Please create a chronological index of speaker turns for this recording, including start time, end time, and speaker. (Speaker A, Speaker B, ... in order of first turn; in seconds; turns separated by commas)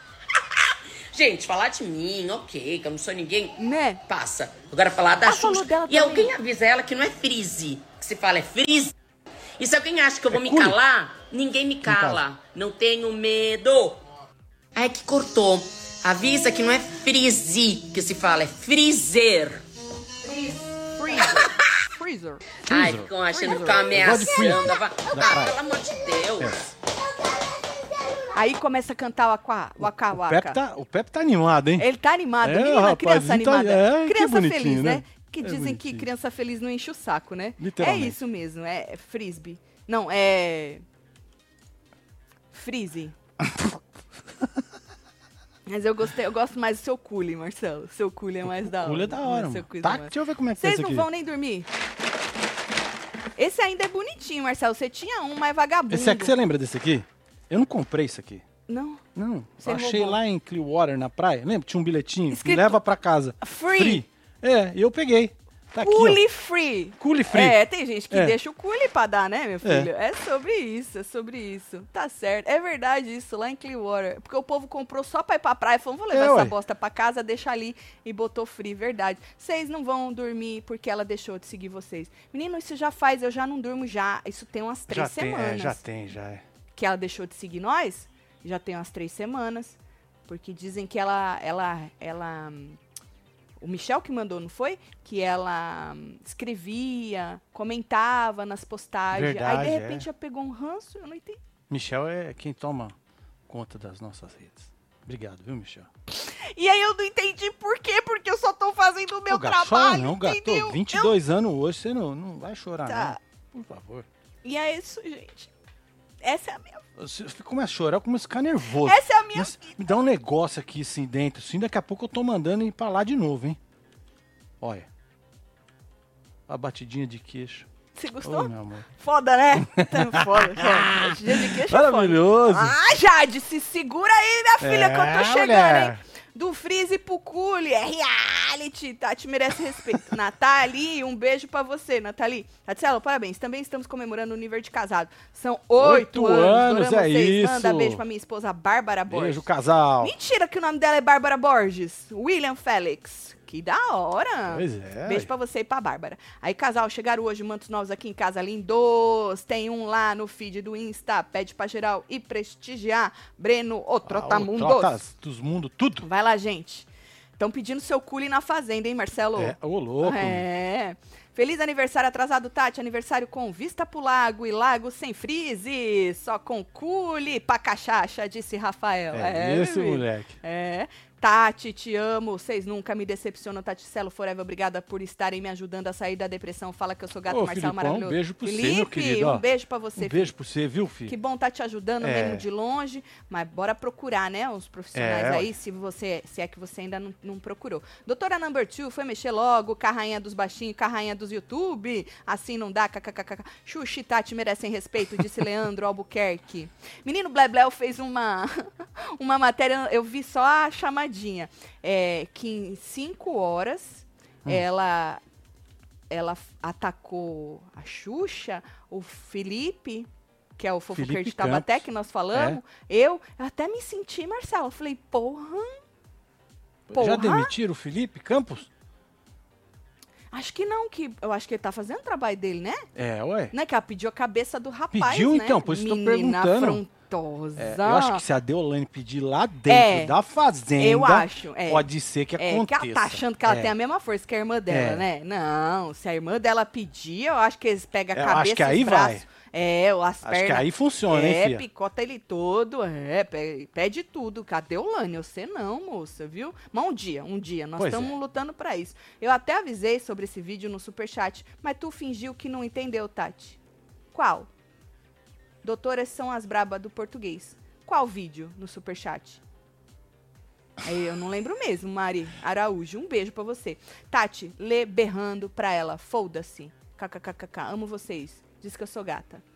Speaker A: 0.3-8.9, Speaker B: 3.6-4.0, Speaker B: 5.2-6.4, Speaker A: 9.6-14.0, Speaker C: 10.3-10.8, Speaker C: 11.8-12.2, Speaker A: 14.7-19.6, Speaker B: 20.2-22.5, Speaker C: 22.7-23.1, Speaker A: 22.7-26.6, Speaker B: 23.3-23.9, Speaker C: 23.9-25.6, Speaker C: 26.4-26.7, Speaker B: 28.3-30.6, Speaker C: 29.8-31.9, Speaker B: 31.8-40.8, Speaker C: 32.4-36.1, Speaker C: 37.6-38.1, Speaker B: 42.5-43.1, Speaker C: 43.4-43.8, Speaker B: 45.7-51.7, Speaker C: 48.4-51.1, Speaker B: 53.4-56.3, Speaker C: 55.9-58.4, Speaker B: 58.7-59.0, Speaker C: 59.1-66.2, Speaker B: 59.6-60.2, Speaker B: 62.3-62.8, Speaker B: 63.4-64.0, Speaker B: 65.8-85.8, Speaker C: 67.0-67.6, Speaker C: 76.1-76.5, Speaker C: 84.9-86.4, Speaker B: 86.8-92.8, Speaker B: 93.6-101.4, Speaker C: 99.1-100.0, Speaker C: 101.7-102.9, Speaker C: 103.5-105.9, Speaker B: 106.1-111.1, Speaker C: 109.3-114.0, Speaker B: 112.9-113.2, Speaker B: 114.4-115.5, Speaker B: 116.2-116.8, Speaker C: 117.0-123.6, Speaker B: 118.8-119.9, Speaker C: 124.6-124.9, Speaker C: 126.5-127.7, Speaker B: 127.9-149.4, Speaker C: 128.2-128.9, Speaker C: 129.6-132.8, Speaker C: 134.6-136.0, Speaker C: 145.8-148.0, Speaker C: 149.1-150.1, Speaker B: 150.0-165.0, Speaker C: 154.5-155.3, Speaker C: 164.1-166.1, Speaker B: 166.0-190.3, Speaker C: 169.4-170.4, Speaker C: 179.1-180.4, Speaker C: 187.3-189.4, Speaker C: 190.0-191.1, Speaker B: 191.1-215.2, Speaker C: 192.0-192.4, Speaker C: 194.9-195.5, Speaker B: 216.1-225.8, Speaker C: 220.9-222.6, Speaker C: 226.9-228.7, Speaker B: 226.9-227.5, Speaker B: 230.3-232.8, Speaker C: 232.9-233.5, Speaker B: 233.5-238.2, Speaker C: 234.9-236.8, Speaker C: 237.6-243.7, Speaker B: 239.7-240.1, Speaker B: 240.8-263.6, Speaker C: 244.7-245.0, Speaker C: 248.1-249.2, Speaker C: 250.2-251.6, Speaker C: 257.8-258.1, Speaker B: 264.1-264.5, Speaker B: 265.6-269.4, Speaker B: 270.8-279.4